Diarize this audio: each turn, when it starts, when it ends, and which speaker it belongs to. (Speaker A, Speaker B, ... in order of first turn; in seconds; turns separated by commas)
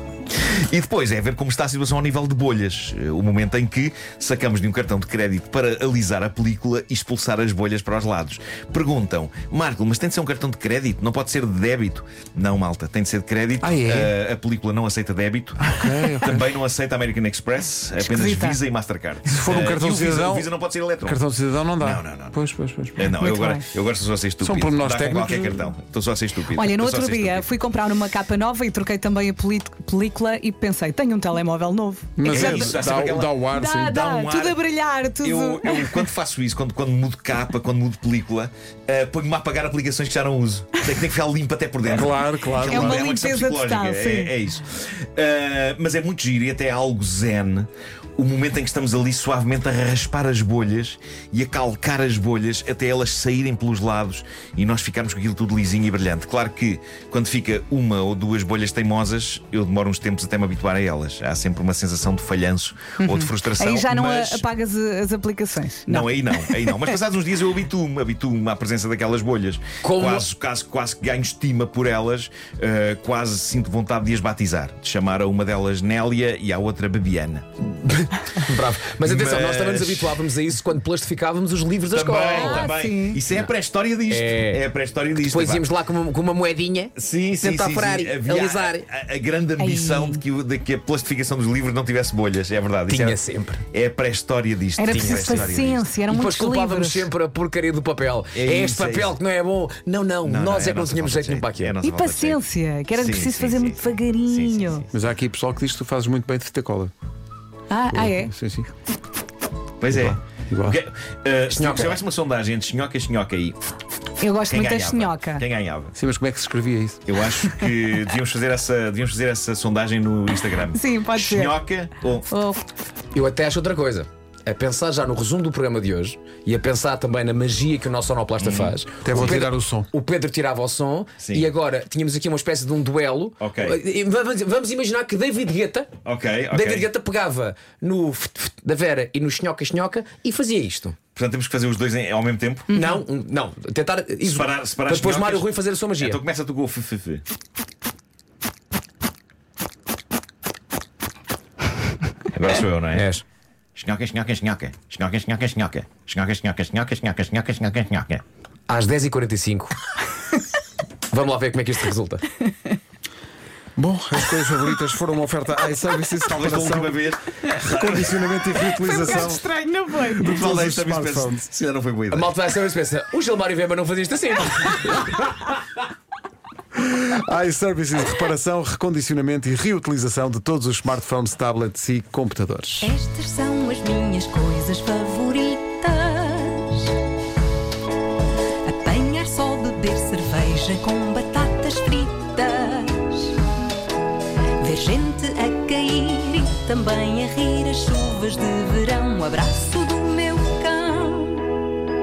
Speaker A: 0.3-21.2, Speaker B: 13.6-14.1, Speaker B: 15.6-16.5, Speaker C: 18.0-18.6, Speaker B: 19.3-20.5, Speaker B: 21.1-23.0, Speaker A: 21.8-22.4, Speaker A: 23.0-27.5, Speaker C: 23.1-23.6, Speaker B: 24.4-25.6, Speaker C: 26.5-32.9, Speaker B: 32.2-34.1, Speaker A: 32.3-34.6, Speaker C: 33.5-36.1, Speaker A: 35.2-64.5, Speaker B: 41.9-43.0, Speaker C: 42.6-44.3, Speaker C: 63.0-67.0, Speaker A: 65.9-77.6, Speaker D: 69.8-70.3, Speaker D: 77.8-82.7, Speaker A: 79.0-80.3, Speaker A: 81.9-85.7, Speaker C: 82.2-83.2, Speaker D: 84.1-84.6, Speaker D: 85.2-88.8, Speaker A: 87.0-93.2, Speaker C: 89.6-90.2, Speaker D: 92.9-93.6, Speaker A: 93.7-95.9, Speaker C: 94.8-97.1, Speaker D: 94.9-95.5, Speaker D: 96.1-101.8, Speaker A: 98.3-99.2, Speaker A: 100.2-104.9, Speaker C: 101.8-104.9, Speaker B: 104.9-106.9, Speaker C: 107.7-108.3, Speaker B: 107.9-108.7, Speaker A: 109.8-113.6, Speaker B: 109.9-110.8, Speaker D: 111.5-112.0, Speaker C: 114.2-115.4, Speaker A: 114.5-115.9, Speaker B: 116.0-117.0, Speaker A: 117.1-122.3, Speaker C: 120.7-121.6, Speaker C: 122.3-122.6, Speaker D: 123.1-135.9, Speaker A: 128.4-128.8, Speaker B: 129.0-129.9, Speaker A: 131.2-131.5, Speaker A: 133.4-133.8, Speaker A: 136.0-136.9, Speaker D: 136.5-141.0, Speaker A: 141.2-142.8, Speaker D: 142.7-146.2, Speaker A: 144.2-147.2, Speaker A: 152.3-153.1, Speaker D: 152.9-153.2, Speaker A: 153.8-158.2, Speaker D: 158.7-159.8, Speaker D: 161.1-162.3, Speaker B: 163.8-167.0, Speaker A: 166.3-168.8, Speaker B: 167.5-169.4, Speaker C: 168.8-170.7, Speaker A: 170.1-172.3, Speaker B: 170.2-171.4, Speaker D: 172.1-175.3, Speaker B: 176.8-183.0, Speaker E: 182.8-187.0, Speaker E: 188.6-193.4, Speaker E: 194.6-201.5